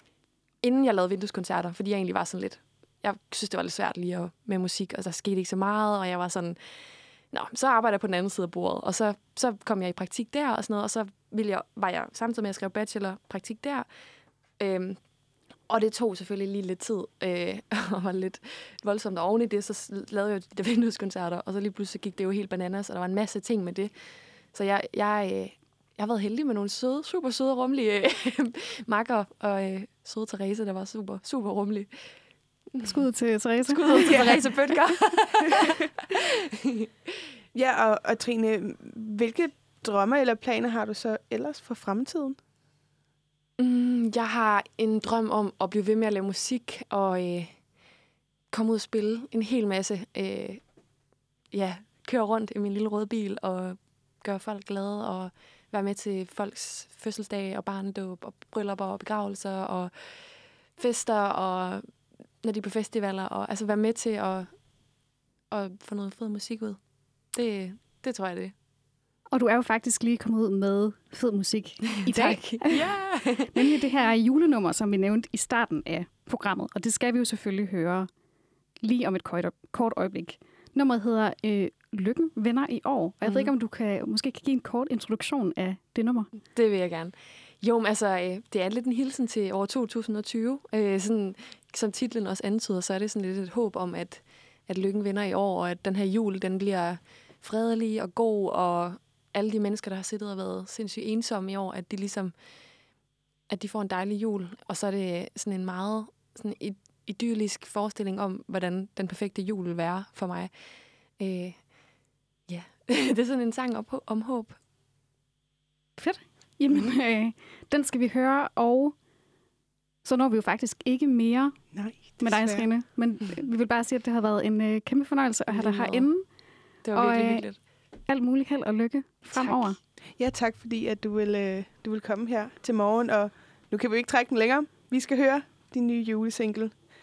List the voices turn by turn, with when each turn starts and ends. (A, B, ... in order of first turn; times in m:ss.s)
0:00.6-0:06.6 A
0:07.3-0:13.9 A
0:14.6-0:15.0 A
0:15.7-0:23.9 A
0:24.5-0:31.9 A
0:32.8-0:34.4 B
0:33.7-0:36.9 A
0:34.0-0:34.4 C
0:37.5-0:42.4 C
0:43.6-0:47.6 A
0:48.5-0:50.6 A
0:51.5-1:00.2 A
1:00.8-1:01.8 A
1:02.4-1:04.5 A
1:05.5-1:06.8 A
1:07.3-1:08.5 A
1:09.3-1:12.9 B
1:12.0-1:13.6 A
1:13.5-1:18.1 B
1:18.8-1:26.3 B
1:23.2-1:23.5 A
1:26.5-1:42.3 A
1:43.5-1:50.5 A
1:51.2-1:51.6 A
1:52.5-1:54.6 A
1:56.0-1:59.0 B
2:00.0-2:01.6 B
2:01.7-2:02.7 C
2:02.2-2:06.2 B
2:05.5-2:06.1 A
2:06.8-2:07.6 A
2:06.9-2:07.5 B
2:08.1-2:09.8 B
2:09.3-2:09.8 A
2:10.2-2:16.7 C